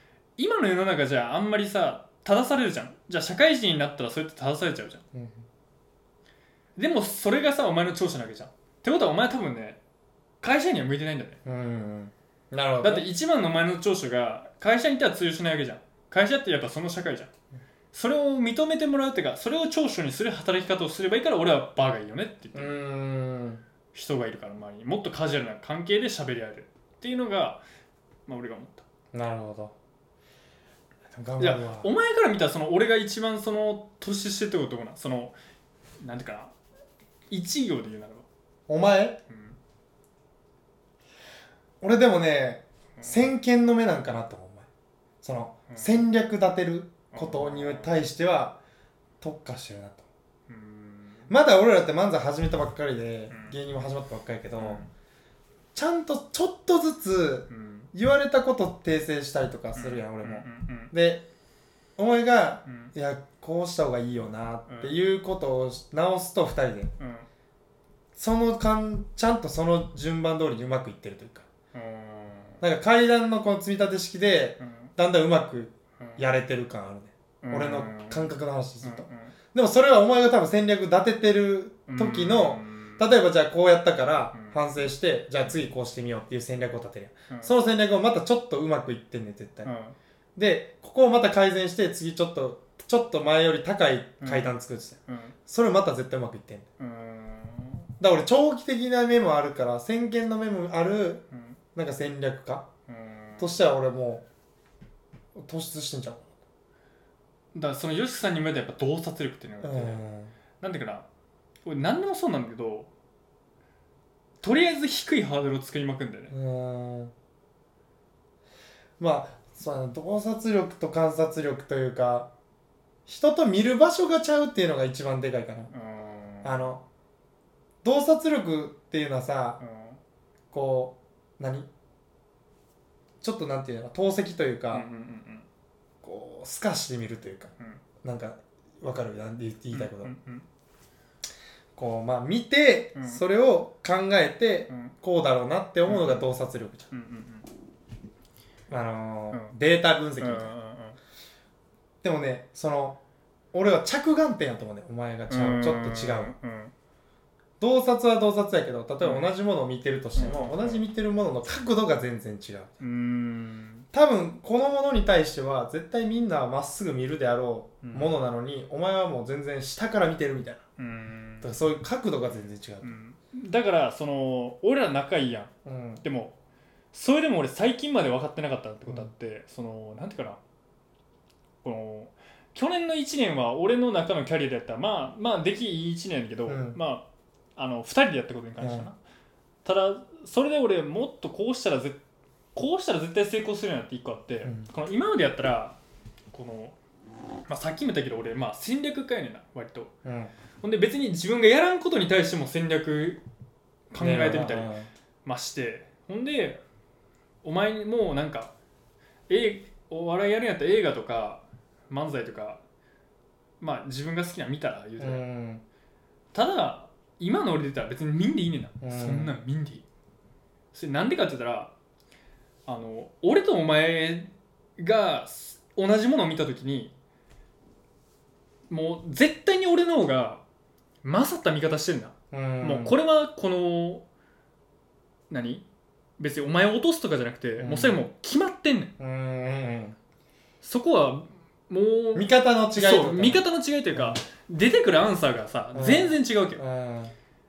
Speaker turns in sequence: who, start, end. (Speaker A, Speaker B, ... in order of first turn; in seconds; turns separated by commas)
Speaker A: 0.4-5.0, Speaker B: 5.1-5.4, Speaker A: 6.8-9.8, Speaker A: 10.4-11.4, Speaker B: 11.4-13.1, Speaker A: 12.8-17.3, Speaker A: 17.9-22.7, Speaker B: 22.5-23.6, Speaker A: 23.9-27.6, Speaker A: 28.3-28.8, Speaker B: 29.1-29.7, Speaker B: 31.1-31.9, Speaker A: 31.4-35.4, Speaker A: 36.0-36.5, Speaker A: 37.3-38.2, Speaker B: 38.7-39.2, Speaker A: 39.3-39.6, Speaker B: 41.8-44.7, Speaker B: 45.2-48.6, Speaker A: 45.7-46.0, Speaker A: 47.1-48.0, Speaker B: 49.2-50.0, Speaker A: 50.5-51.3, Speaker B: 51.3-54.8, Speaker A: 53.3-53.6, Speaker A: 54.6-54.9, Speaker B: 55.7-61.2, Speaker A: 57.5-57.9, Speaker A: 59.7-60.9, Speaker B: 62.0-66.9, Speaker A: 62.7-62.9, Speaker A: 64.7-64.9, Speaker A: 67.0-67.3, Speaker B: 68.1-71.5, Speaker A: 71.7-72.6, Speaker B: 72.6-89.7, Speaker A: 74.6-74.9, Speaker A: 76.0-76.2, Speaker A: 77.4-79.3, Speaker A: 81.9-83.1, Speaker A: 84.3-84.6, Speaker A: 89.6-90.0, Speaker B: 90.3-96.7, Speaker A: 94.2-95.3, Speaker A: 96.8-97.9, Speaker B: 98.0-101.2, Speaker A: 101.3-101.6, Speaker B: 101.7-102.7, Speaker A: 102.9-103.5, Speaker B: 103.4-104.2, Speaker B: 105.3-106.4, Speaker A: 107.5-110.0, Speaker B: 109.6-110.3, Speaker A: 110.6-111.0, Speaker A: 111.7-112.9, Speaker A: 114.4-116.3, Speaker B: 116.3-117.1, Speaker B: 119.0-122.3, Speaker B: 123.0-125.7, Speaker A: 125.7-126.6, Speaker B: 126.4-126.8, Speaker B: 127.8-129.6, Speaker A: 129.6-130.0, Speaker B: 130.5-131.7, Speaker B: 133.2-134.8, Speaker A: 134.7-135.4, Speaker B: 136.0-140.1, Speaker A: 139.7-140.4, Speaker B: 141.8-146.9, Speaker A: 142.9-143.2, Speaker A: 145.8-146.2, Speaker A: 146.9-147.5, Speaker B: 148.7-150.5, Speaker A: 150.2-151.0, Speaker B: 152.0-153.0, Speaker B: 153.5-156.3, Speaker A: 155.3-156.7, Speaker B: 157.6-162.7, Speaker A: 159.0-159.3, Speaker A: 160.2-160.8, Speaker A: 162.8-163.8, Speaker B: 163.9-170.6, Speaker A: 167.8-168.1, Speaker A: 170.8-171.5, Speaker B: 171.4-173.0, Speaker A: 172.8-176.3, Speaker B: 175.6-176.0, Speaker A: 176.9-180.4, Speaker A: 181.6-187.0, Speaker B: 186.4-186.8, Speaker A: 187.6-189.0, Speaker B: 188.6-188.9, Speaker A: 189.6-192.0, Speaker A: 192.5-195.8, Speaker B: 194.4-194.7, Speaker A: 196.3-196.7, Speaker A: 197.5-199.9, Speaker B: 200.0-200.3, Speaker A: 200.6-203.2, Speaker A: 203.9-204.7, Speaker B: 204.0-204.9, Speaker A: 205.2-206.6, Speaker A: 207.4-208.5, Speaker A: 209.3-212.6, Speaker A: 213.6-215.2, Speaker B: 215.0-215.6, Speaker A: 216.3-219.8, Speaker B: 218.8-219.3, Speaker A: 220.7-221.7, Speaker A: 222.7-226.9, Speaker A: 228.7-230.4, Speaker A: 231.0-234.0, Speaker B: 232.3-232.9, Speaker A: 235.3-235.6, Speaker A: 236.2-238.9, Speaker B: 237.6-238.0, Speaker B: 239.0-239.9, Speaker A: 240.6-246.6, Speaker B: 242.1-244.2, Speaker B: 245.7-247.1